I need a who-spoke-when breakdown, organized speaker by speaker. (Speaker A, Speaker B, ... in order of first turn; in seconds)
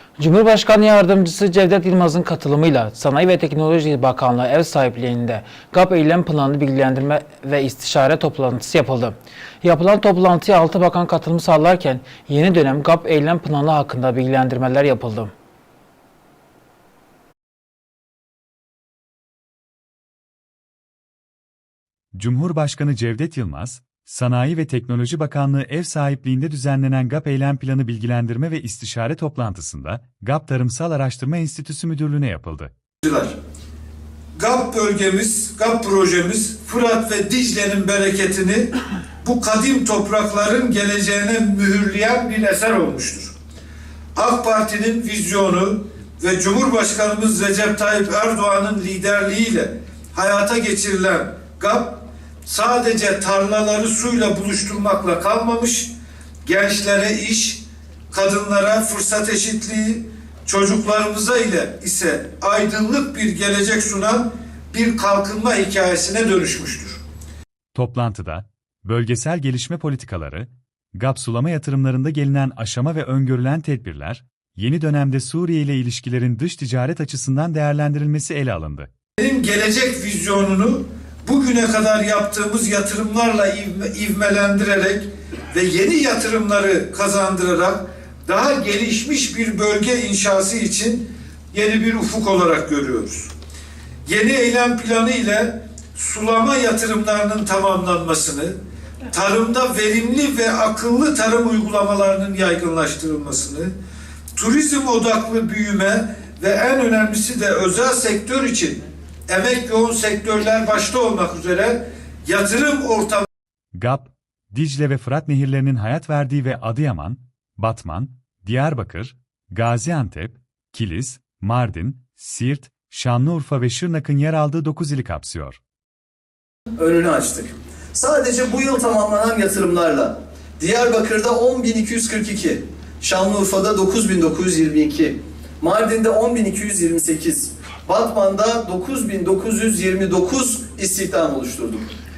Speaker A: 0.2-15.3
Speaker B: 22.2-32.7, 67.8-78.9, 113.8-125.6
Speaker C: 33.0-33.3, 34.4-38.7, 39.2-43.3, 44.2-55.9, 56.5-67.0, 79.2-93.3, 94.1-98.6, 99.1-103.7, 104.4-113.3
Speaker D: 126.8-141.9